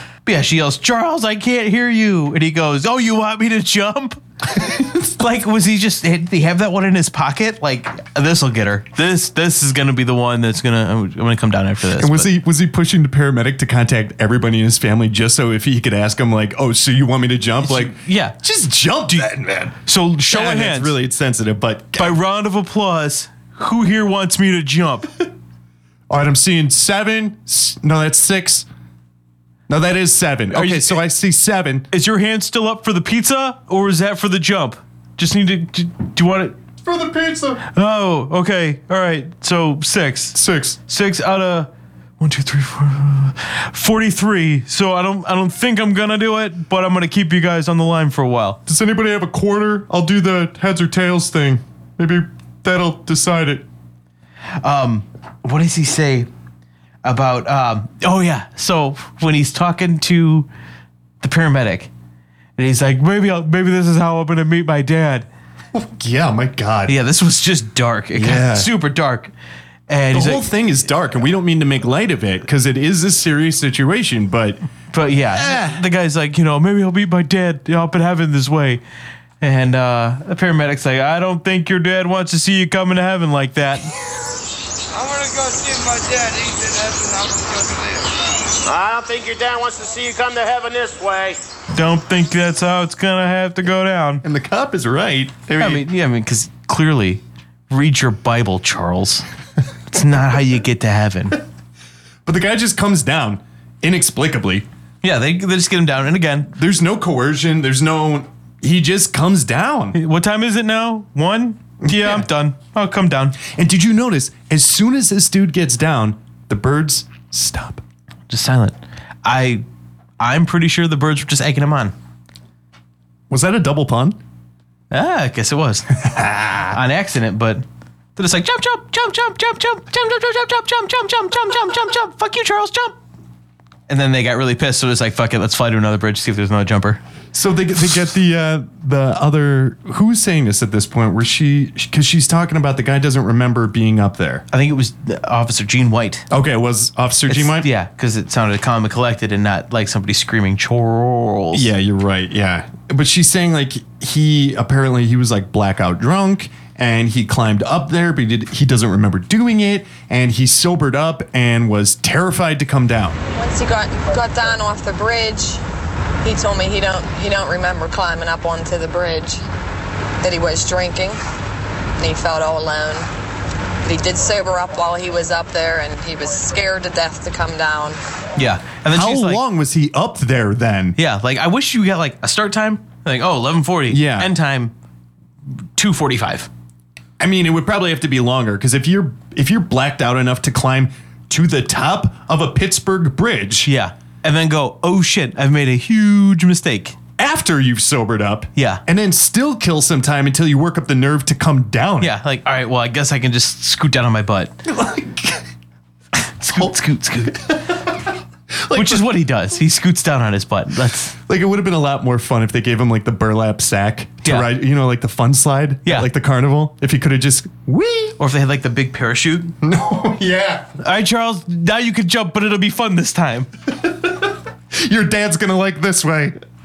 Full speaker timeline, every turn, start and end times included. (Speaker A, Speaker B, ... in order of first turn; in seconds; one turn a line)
Speaker A: 0.3-12.3
Speaker B: 4.6-4.9
Speaker B: 11.9-22.2
Speaker A: 17.6-18.4
Speaker A: 19.9-20.9
Speaker A: 22.0-25.1
Speaker B: 26.1-28.7
Speaker B: 29.7-31.9
Speaker A: 30.5-31.0
Speaker A: 31.9-36.6
Speaker B: 36.8-37.6
Speaker A: 37.7-41.7
Speaker B: 40.3-40.8
Speaker A: 42.2-48.6
Speaker B: 48.7-53.7
Speaker A: 54.6-56.3
Speaker A: 57.0-60.5
Speaker A: 61.2-61.9
Speaker A: 62.6-65.3
Speaker B: 65.7-67.0
Speaker A: 66.9-69.3
Speaker B: 68.2-68.7
Speaker A: 69.9-70.5
Speaker B: 70.1-74.6
Speaker A: 74.9-78.8
Speaker B: 75.3-75.8
Speaker A: 79.4-83.9
Speaker C: 84.9-88.2
Speaker D: 88.6-91.4
Speaker A: 91.7-94.2
Speaker B: 94.2-95.8
Speaker A: 95.6-99.3
Speaker A: 99.9-101.4
Speaker B: 102.3-104.7
Speaker A: 105.0-106.5
Speaker B: 106.5-110.0
Speaker A: 109.9-113.4
Speaker B: 111.8-112.3
Speaker B: 113.4-117.8
Speaker A: 118.3-119.6
Speaker A: 120.2-121.9
Speaker B: 123.3-124.2
Speaker A: 124.9-126.0
Speaker B: 126.0-126.8
Speaker A: 126.7-127.6
Speaker A: 128.2-133.0
Speaker A: 133.9-137.0
Speaker B: 137.3-144.5
Speaker A: 144.5-146.3
Speaker B: 146.3-147.7
Speaker A: 147.3-151.7
Speaker B: 151.5-163.2
Speaker E: 163.3-165.6
Speaker E: 166.2-169.4
Speaker E: 170.2-171.2
Speaker E: 172.0-173.1
Speaker E: 173.8-178.0
Speaker A: 178.4-179.4
Speaker B: 178.9-181.0
Speaker A: 181.0-184.7
Speaker B: 183.9-184.3
Speaker A: 185.8-186.5
Speaker B: 187.2-193.7
Speaker A: 193.7-197.0
Speaker B: 197.2-202.2
Speaker A: 198.6-198.8
Speaker A: 202.0-204.6
Speaker B: 204.7-205.4
Speaker A: 206.3-207.8
Speaker B: 208.6-209.2
Speaker A: 208.7-211.2
Speaker B: 211.3-218.2
Speaker A: 214.2-214.5
Speaker A: 218.2-219.6
Speaker B: 219.6-220.7
Speaker A: 220.8-223.5
Speaker B: 223.8-226.4